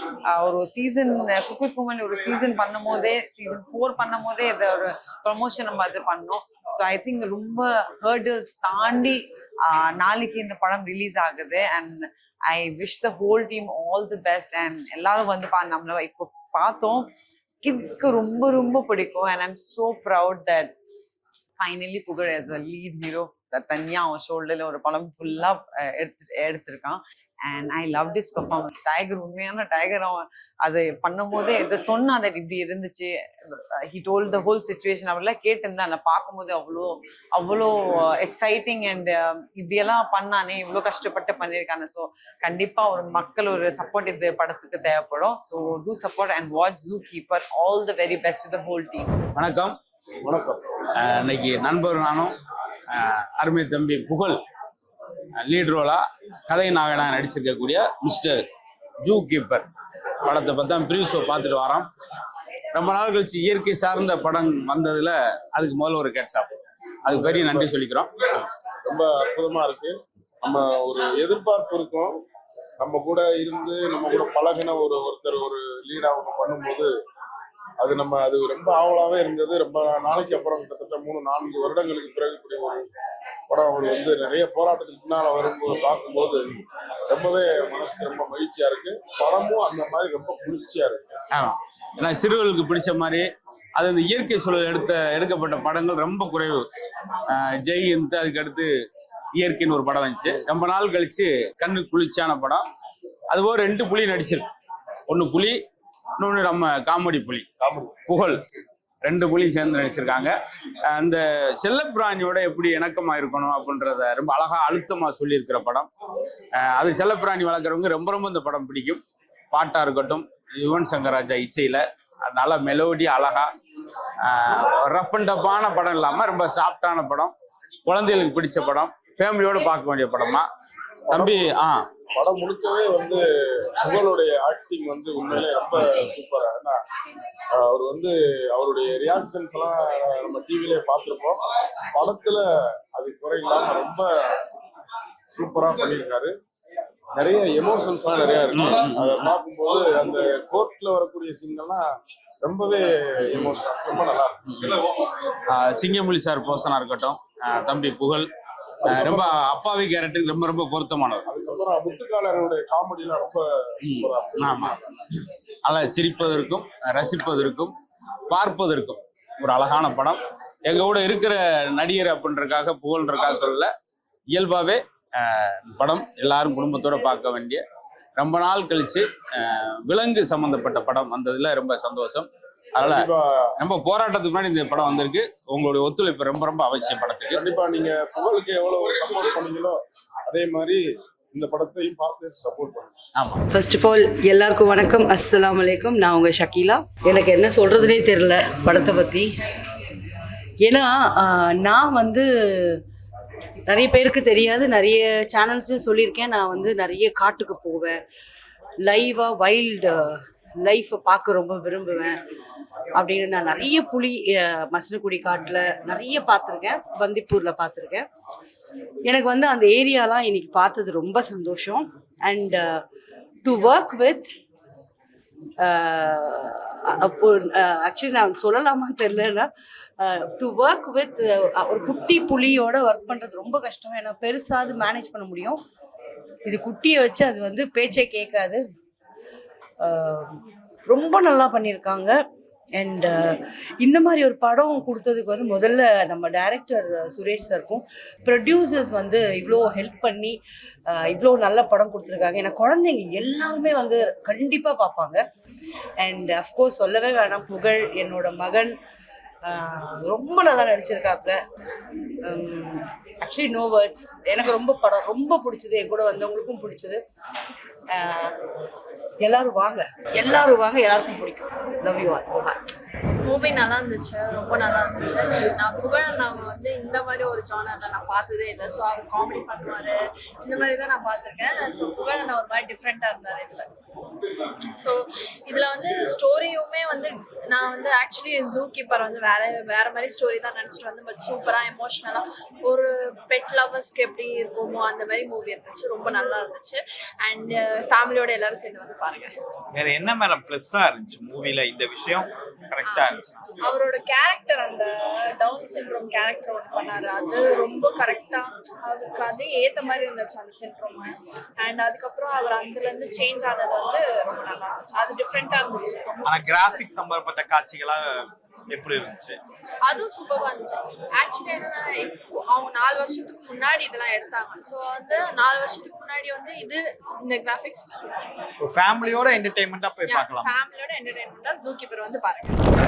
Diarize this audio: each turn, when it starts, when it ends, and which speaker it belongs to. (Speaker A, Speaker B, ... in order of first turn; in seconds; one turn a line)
Speaker A: 0.3-17.1
Speaker A: 17.6-20.7
Speaker A: 21.6-49.1
Speaker B: 49.4-49.8
Speaker C: 50.2-50.6
Speaker B: 51.0-52.4
Speaker B: 52.9-54.4
Speaker B: 55.4-58.4
Speaker B: 59.0-59.7
Speaker B: 60.2-61.9
Speaker B: 62.7-66.5
Speaker B: 67.0-68.1
Speaker C: 67.1-67.7
Speaker C: 68.8-72.2
Speaker C: 72.8-76.9
Speaker C: 77.8-82.9
Speaker C: 83.5-86.6
Speaker C: 87.1-91.0
Speaker B: 91.3-93.3
Speaker B: 93.8-96.6
Speaker B: 97.3-98.7
Speaker B: 99.4-102.7
Speaker B: 103.3-104.5
Speaker B: 105.1-105.6
Speaker B: 106.2-107.5
Speaker B: 108.0-108.4
Speaker B: 109.0-110.3
Speaker B: 110.9-115.9
Speaker B: 116.6-119.0
Speaker B: 119.5-123.5
Speaker B: 124.3-127.3
Speaker B: 127.8-130.5
Speaker B: 131.1-131.8
Speaker C: 131.1-131.4
Speaker C: 132.1-133.2
Speaker C: 133.8-136.8
Speaker C: 137.5-141.4
Speaker C: 141.9-144.3
Speaker C: 145.3-146.3
Speaker C: 147.1-151.9
Speaker B: 148.5-149.2
Speaker C: 152.4-154.4
Speaker B: 153.3-153.6
Speaker B: 155.5-158.3
Speaker B: 158.9-161.2
Speaker C: 158.9-159.3
Speaker C: 161.3-164.9
Speaker B: 163.8-164.8
Speaker B: 165.7-167.7
Speaker B: 168.3-173.7
Speaker B: 174.3-177.6
Speaker B: 178.2-187.4
Speaker C: 182.8-183.3
Speaker C: 187.3-192.9
Speaker B: 193.2-193.4
Speaker D: 193.5-199.3
Speaker D: 200.7-202.2
Speaker D: 203.7-208.0
Speaker D: 208.8-209.9
Speaker D: 210.6-212.1
Speaker D: 213.0-214.2
Speaker D: 214.7-218.0
Speaker D: 219.1-222.8
Speaker D: 223.4-224.2
Speaker D: 225.9-226.4
Speaker D: 227.0-229.5
Speaker D: 230.0-235.6
Speaker D: 236.5-238.6
Speaker D: 240.0-240.3
Speaker D: 240.9-242.2
Speaker D: 242.8-243.1
Speaker D: 243.8-250.4
Speaker D: 250.9-255.2
Speaker D: 256.0-258.8
Speaker D: 259.8-261.4
Speaker D: 262.3-267.0
Speaker D: 269.2-272.5
Speaker E: 273.2-283.7
Speaker E: 284.7-299.3
Speaker F: 299.7-303.3
Speaker E: 302.8-316.9
Speaker F: 316.3-319.4
Speaker E: 319.8-327.9
Speaker F: 328.6-330.5
Speaker E: 330.0-332.6